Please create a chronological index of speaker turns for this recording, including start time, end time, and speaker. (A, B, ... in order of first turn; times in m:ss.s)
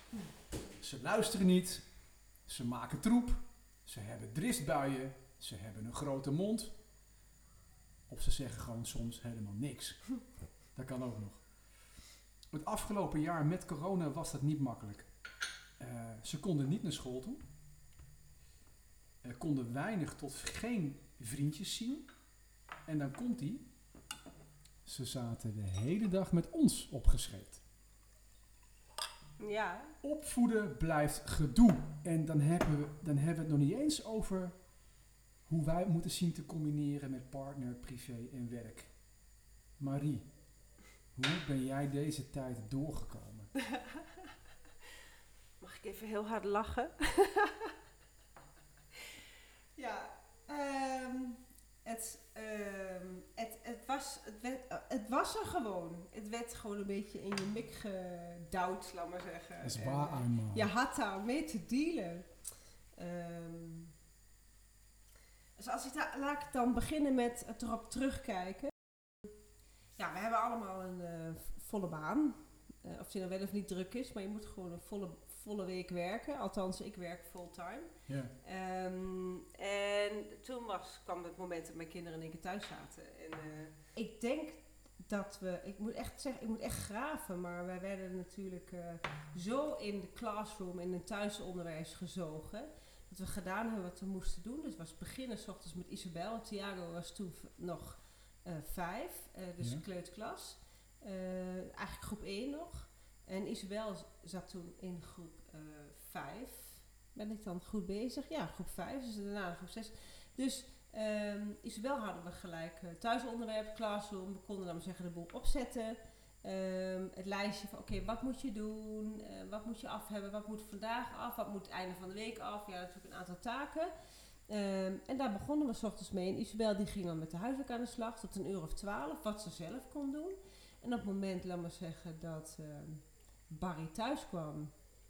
0:00.8-0:01.8 A
0:02.4-0:06.7 A
0:08.1-0:10.1 A
0:10.7-0:11.4 A
0:12.5-0:15.1 A
0:15.8-0:17.4 A
0:19.2-0:22.1 A
0:22.8-0:23.7 A
0:24.8-0:27.6 A
0:29.4-0:29.9 B
0:30.0-0:34.6 A
0:35.5-0:38.9 A
0:39.8-0:40.3 A
0:41.2-0:43.5 A
0:43.7-0:44.0 B
0:45.6-0:47.7 B
0:49.8-1:02.2 B
0:59.6-1:00.7 A
1:03.0-1:03.9 B
1:05.6-1:09.3 B
1:10.0-1:17.9 B
1:18.4-2:03.9 B
2:04.5-2:14.7 B